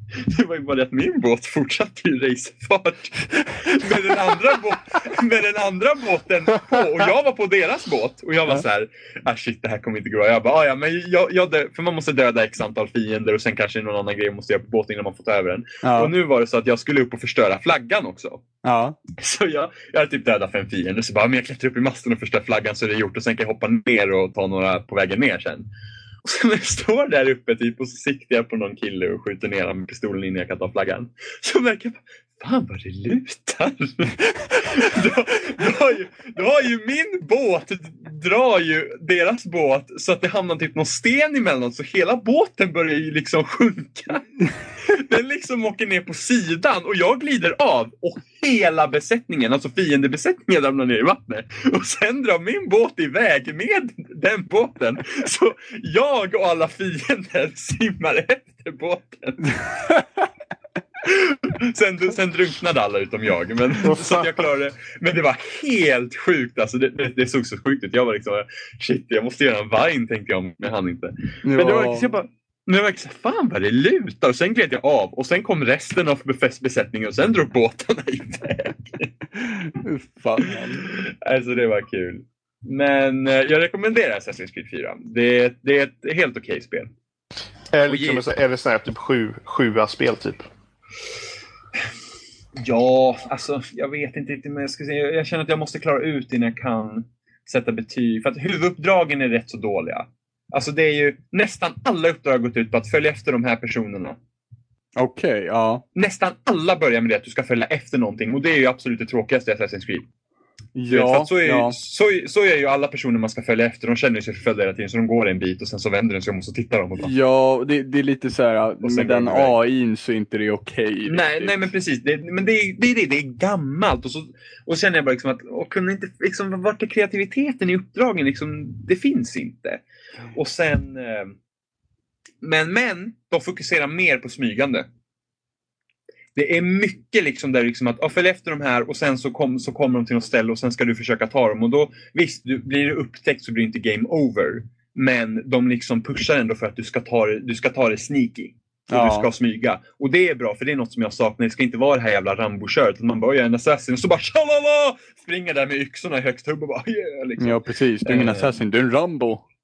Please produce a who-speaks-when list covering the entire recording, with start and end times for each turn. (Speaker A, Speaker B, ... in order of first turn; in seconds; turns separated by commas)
Speaker A: 0.1-18.4, Speaker B: 15.8-16.1, Speaker B: 18.6-19.0, Speaker A: 19.1-25.7, Speaker A: 26.2-59.5, Speaker B: 59.6-60.1, Speaker A: 61.0-79.1, Speaker B: 71.4-72.1, Speaker B: 79.4-80.9, Speaker A: 80.4-86.9, Speaker C: 87.7-90.4, Speaker A: 87.9-88.2, Speaker A: 92.5-104.2, Speaker B: 105.0-105.8, Speaker A: 105.9-110.0, Speaker B: 110.7-111.8, Speaker A: 110.9-117.1, Speaker B: 117.0-121.5, Speaker A: 118.8-119.5, Speaker A: 121.1-129.8, Speaker A: 130.3-131.3, Speaker A: 132.4-134.9, Speaker A: 136.3-158.5, Speaker B: 148.9-149.3, Speaker B: 157.4-159.4